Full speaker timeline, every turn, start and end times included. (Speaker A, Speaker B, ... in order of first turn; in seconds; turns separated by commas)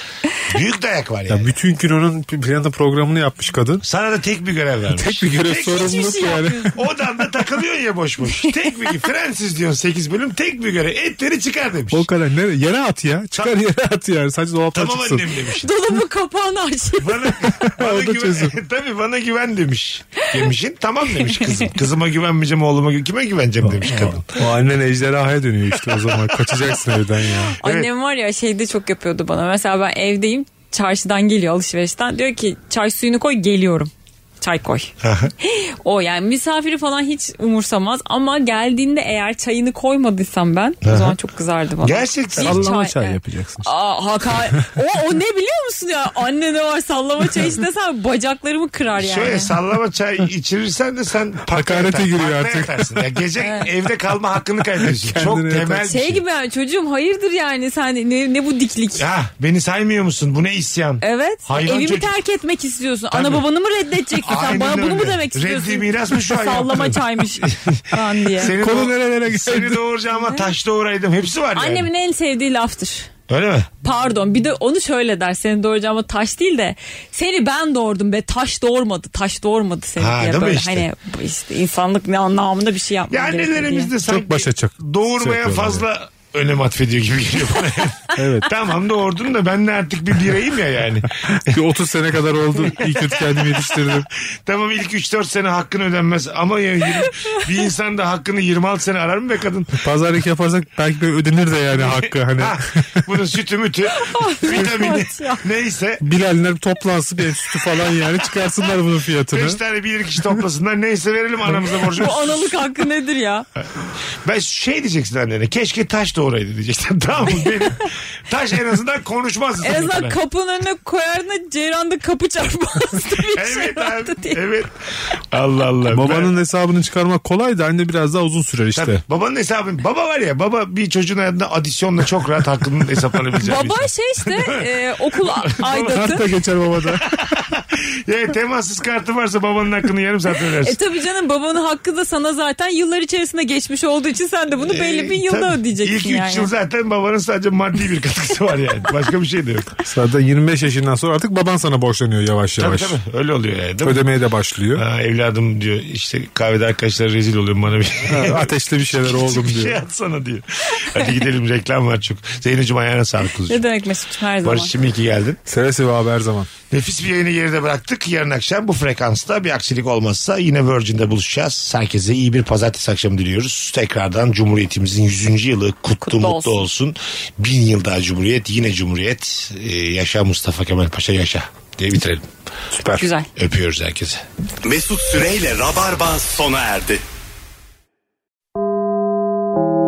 Speaker A: 0.5-1.5, Speaker B: 1.3-3.8, Speaker A: 3.8-6.2, Speaker B: 4.9-6.7, Speaker C: 5.6-6.8, Speaker A: 6.7-12.0, Speaker B: 11.9-15.3, Speaker A: 14.7-15.7, Speaker C: 15.3-17.4, Speaker A: 17.0-24.3, Speaker B: 17.4-18.6, Speaker B: 23.6-27.6, Speaker A: 25.9-26.5, Speaker A: 27.6-27.9, Speaker C: 27.6-49.5, Speaker A: 35.0-35.3, Speaker A: 40.8-41.1, Speaker A: 41.8-42.6, Speaker B: 42.4-43.7, Speaker A: 49.0-56.2, Speaker B: 51.5-53.1, Speaker C: 53.4-53.7, Speaker B: 54.8-55.9, Speaker C: 55.9-59.0, Speaker A: 59.0-62.1, Speaker C: 61.0-68.5, Speaker A: 63.1-63.4, Speaker A: 64.2-67.8, Speaker A: 68.3-71.9, Speaker B: 68.4-69.8, Speaker C: 70.2-70.5, Speaker C: 71.5-73.1, Speaker A: 73.3-73.7, Speaker C: 73.8-83.9, Speaker A: 80.0-80.9, Speaker A: 83.1-91.6, Speaker B: 84.0-85.8, Speaker B: 88.2-88.5, Speaker B: 91.4-94.0, Speaker A: 92.6-99.8, Speaker B: 99.7-102.6, Speaker A: 101.7-106.0, Speaker C: 103.9-105.4, Speaker B: 106.0-109.6, Speaker A: 109.3-112.5, Speaker C: 111.8-113.5, Speaker A: 114.2-120.1, Speaker C: 119.6-124.4, Speaker A: 123.2-126.3, Speaker B: 125.9-129.0, Speaker A: 128.7-134.6, Speaker C: 133.4-136.2, Speaker A: 135.3-135.8, Speaker B: 135.6-137.4, Speaker A: 136.9-140.8, Speaker C: 140.6-146.5, Speaker A: 144.6-149.7, Speaker B: 149.8-153.0, Speaker A: 152.6-154.1, Speaker B: 153.8-154.8, Speaker A: 154.7-163.6, Speaker B: 158.1-159.8, Speaker C: 163.5-164.7, Speaker A: 164.4-165.4, Speaker B: 165.5-166.5, Speaker A: 166.7-182.3, Speaker C: 176.0-176.7, Speaker B: 182.7-183.1, Speaker C: 183.0-183.3, Speaker A: 183.3-184.2, Speaker D: 184.6-187.0